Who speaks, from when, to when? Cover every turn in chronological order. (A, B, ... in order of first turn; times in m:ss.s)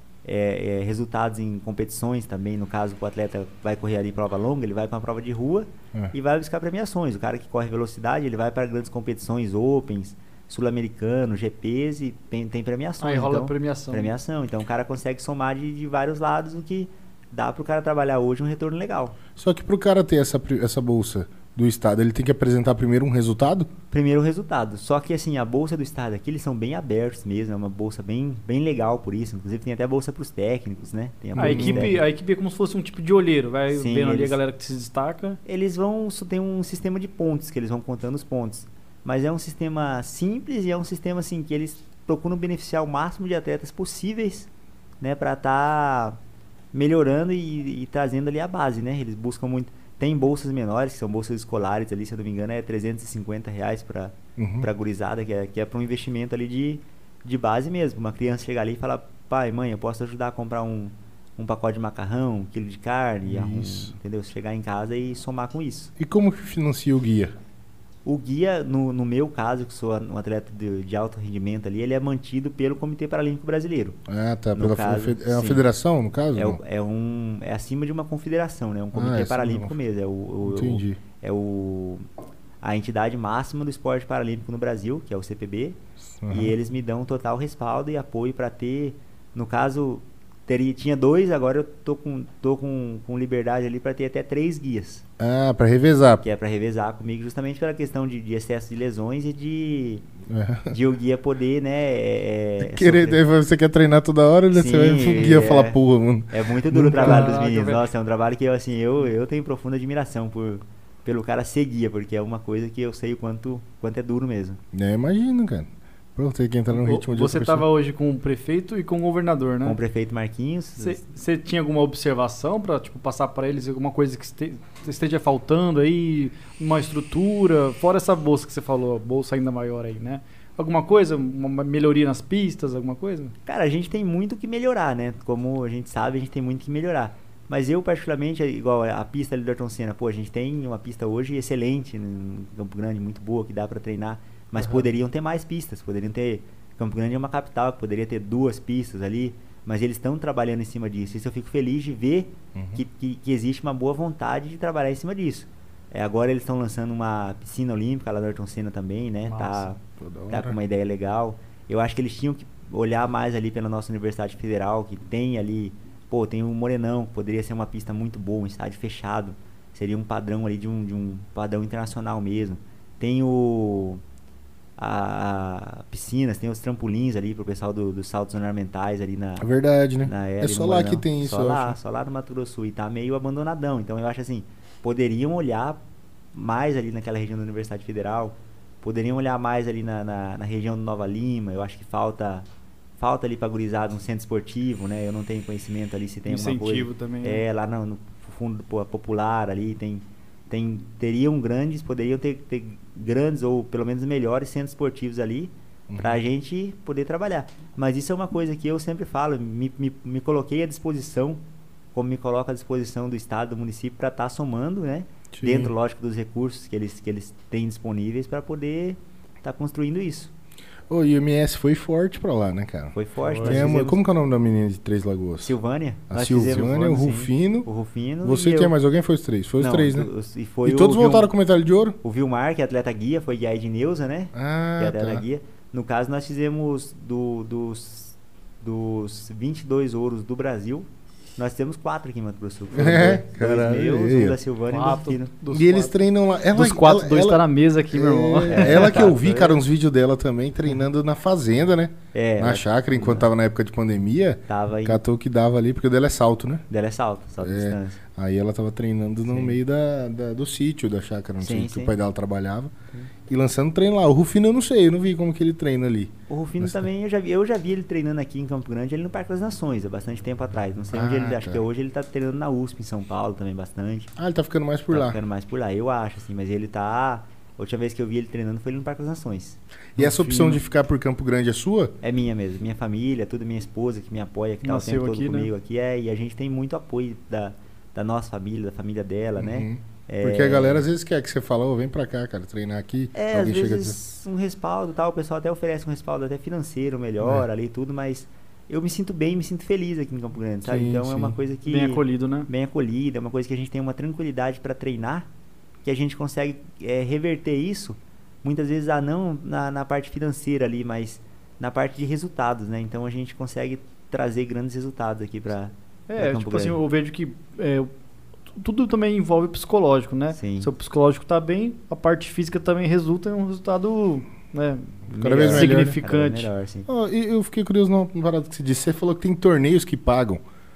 0:00.2-0:19.2 A
0:13.0-0:14.1 B
0:19.4-0:23.7 C
0:23.9-0:32.0 A
0:31.4-0:32.0 C
0:31.4-0:35.4 B
0:33.7-0:34.4 A
0:35.5-0:44.5 A
0:45.0-0:46.2 A
0:46.7-1:05.9 A
0:54.4-0:54.7 C
1:03.3-1:03.9 C
1:06.0-1:07.3 C
1:08.0-1:14.0 A
1:14.1-1:16.6 C
1:14.6-1:15.6 A
1:16.4-1:22.0 A
1:18.9-1:19.8 C
1:20.4-1:21.0 C
1:22.6-1:25.8 A
1:26.2-1:26.6 C
1:26.3-1:35.0 A
1:35.2-1:36.2 C
1:36.2-1:40.1 A
1:40.3-1:40.8 C
1:40.7-1:43.2 A
1:42.6-1:47.3 C
1:44.5-1:54.6 A
1:47.0-1:47.9 B
1:54.7-1:57.6 C
1:56.7-1:59.8 B
1:59.6-2:01.0 A
2:00.8-2:13.3 B
2:13.5-2:54.0 A
2:32.6-2:32.8 C
2:39.3-2:39.7 B
2:40.0-2:40.6 C
2:54.8-2:59.5 A
2:59.4-3:01.8 C
3:00.0-3:05.8 A
3:06.3-3:12.5 A
3:13.0-3:31.4 A
3:16.3-3:17.4 B
3:25.9-3:26.2 C
3:31.9-3:40.3 A
3:35.3-3:35.7 C
3:40.9-3:45.5 C
3:42.9-3:44.0 A
3:43.2-3:43.6 B
3:45.4-3:48.7 A
3:46.1-3:47.7 C
3:48.2-3:50.1 C
3:49.6-3:51.3 A
3:50.6-3:52.0 C
3:52.0-4:05.3 A
3:54.3-3:55.2 C
4:02.7-4:04.4 C
4:04.7-4:05.9 B
4:05.5-4:16.6 C
4:06.5-4:08.9 B
4:08.5-4:09.6 A
4:12.1-4:13.3 A
4:14.5-4:15.0 A
4:16.7-4:18.0 A
4:17.4-4:22.7 C
4:19.3-4:19.6 A
4:21.4-4:21.9 A
4:23.3-4:26.9 C
4:26.3-4:34.1 A
4:30.9-4:31.6 C
4:34.2-4:35.2 C
4:34.9-4:39.6 A
4:40.0-4:41.9 C
4:40.0-4:40.6 B
4:42.0-4:50.8 A
4:44.6-4:45.5 B
4:49.4-4:54.0 C
4:53.1-5:05.3 A
4:57.2-4:57.5 C
5:00.6-5:01.4 C
5:01.6-5:02.5 B
5:05.8-5:16.8 A
5:16.1-5:17.9 B
5:18.6-5:26.5 B
5:20.3-5:20.7 A
5:25.1-5:26.9 A
5:25.2-5:26.0 C
5:26.9-5:30.4 C